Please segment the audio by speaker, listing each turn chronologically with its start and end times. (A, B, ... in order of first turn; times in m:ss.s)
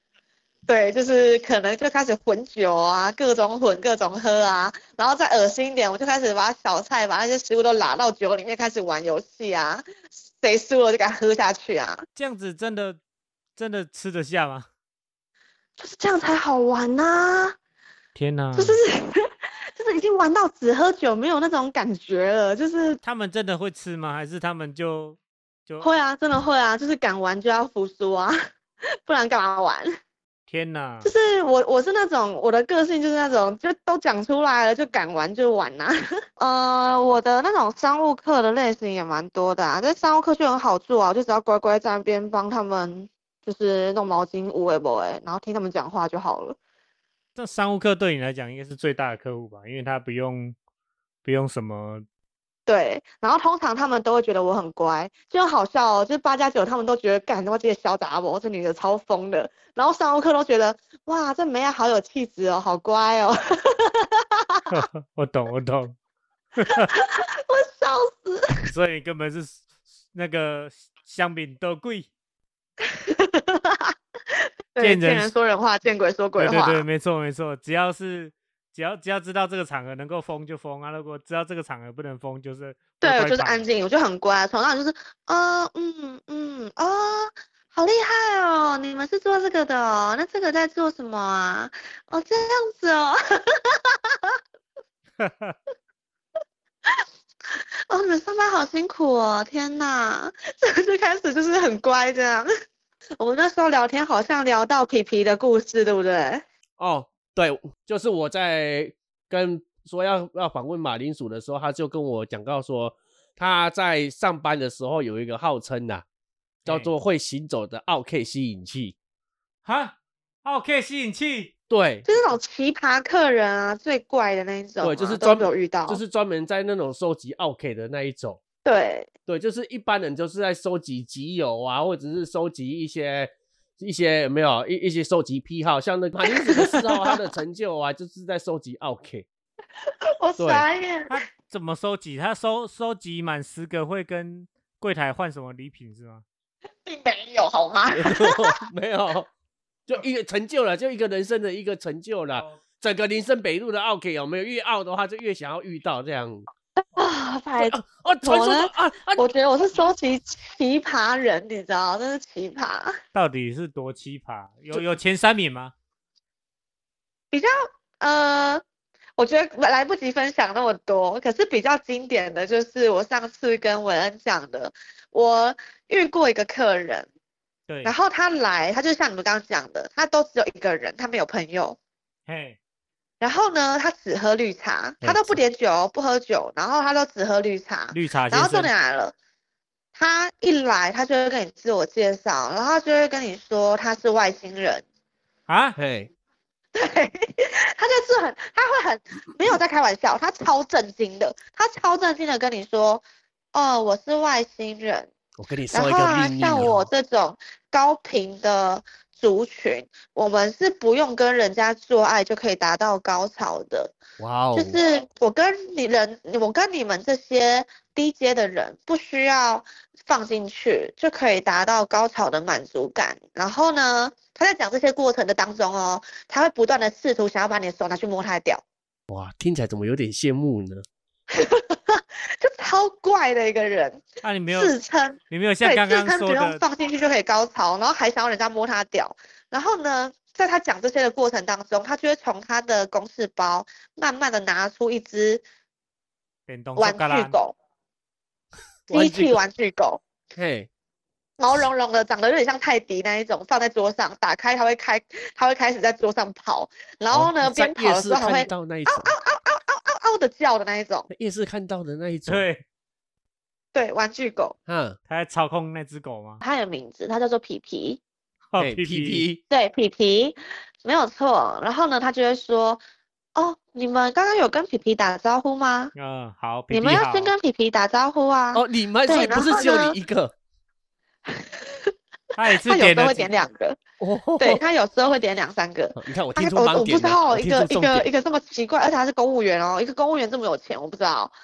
0:00.7-0:09.8 A
0:10.4-0:12.0 A
0:12.2-0:13.0 B
0:13.6-0:14.7 B
0:15.8-0:17.6 A
0:18.1-0:18.8 B
0:18.6-0:23.0 A
0:23.0-0:25.9 B
0:25.8-0:28.4 A
0:29.0-0:29.9 A
0:30.5-0:31.1 B
0:31.0-0:46.6 A
0:47.4-0:50.6 B
0:51.2-0:52.0 B
0:52.7-1:04.7 A
1:04.7-1:06.0 B
1:06.6-1:06.9 B
1:06.7-1:08.6 A
1:08.7-1:12.1 B
1:12.9-1:13.9 A
1:14.7-1:16.8 A
1:14.8-1:15.3 B
1:16.4-1:23.6 B
1:23.0-1:34.3 A
1:35.2-1:35.6 B
1:37.9-1:42.5 A
1:43.2-1:46.4 A
1:46.8-1:56.0 C
1:56.6-1:56.9 B
1:56.7-1:58.9 C
1:59.6-2:01.5 B
2:01.7-2:02.0 C
2:02.0-2:06.0 A
2:04.8-2:08.4 C
2:08.6-2:09.1 A
2:09.3-2:19.2 C
2:16.3-2:17.2 A
2:20.2-2:21.2 A
2:20.4-2:20.6 C
2:21.1-2:26.2 B
2:26.8-2:28.5 A
2:27.9-2:29.3 C
2:29.9-2:36.5 C
2:32.3-2:32.6 B
2:36.9-2:43.0 A
2:37.6-2:39.2 C
2:43.1-2:45.7 B
2:47.3-2:48.6 A
2:49.2-2:57.1 A
2:57.7-2:57.9 B
2:57.8-3:01.8 A
3:02.3-3:02.6 B
3:03.2-3:09.1 A
3:05.0-3:05.4 B
3:07.9-3:08.7 B
3:09.9-3:14.8 A
3:15.5-3:15.8 B
3:15.8-3:16.1 C
3:16.7-3:25.1 A
3:25.4-3:26.9 C
3:25.7-3:33.9 A
3:34.2-3:34.8 C
3:34.5-3:48.6 A
3:49.1-3:50.8 C
3:51.3-4:05.4 A
3:54.2-3:54.7 B
3:55.3-3:56.6 B
4:06.5-4:07.4 B
4:06.8-4:07.5 A
4:08.9-4:09.4 C
4:08.9-4:10.0 A
4:10.3-4:10.7 C
4:11.4-4:21.1 A
4:17.1-4:19.1 C
4:21.1-4:22.4 C
4:22.3-4:22.6 B
4:23.7-4:24.5 A
4:24.7-4:25.0 C
4:25.1-4:26.4 B
4:26.4-4:28.0 A
4:28.5-4:29.2 B
4:28.6-4:29.4 C
4:29.5-4:32.8 A
4:33.4-4:35.9 A
4:35.9-4:37.3 B
4:36.7-4:40.0 A
4:38.5-4:40.3 C
4:41.3-4:41.9 A
4:42.4-4:43.3 B
4:42.6-4:43.8 A
4:44.0-4:44.6 C
4:44.4-4:51.3 A
4:46.0-4:48.1 C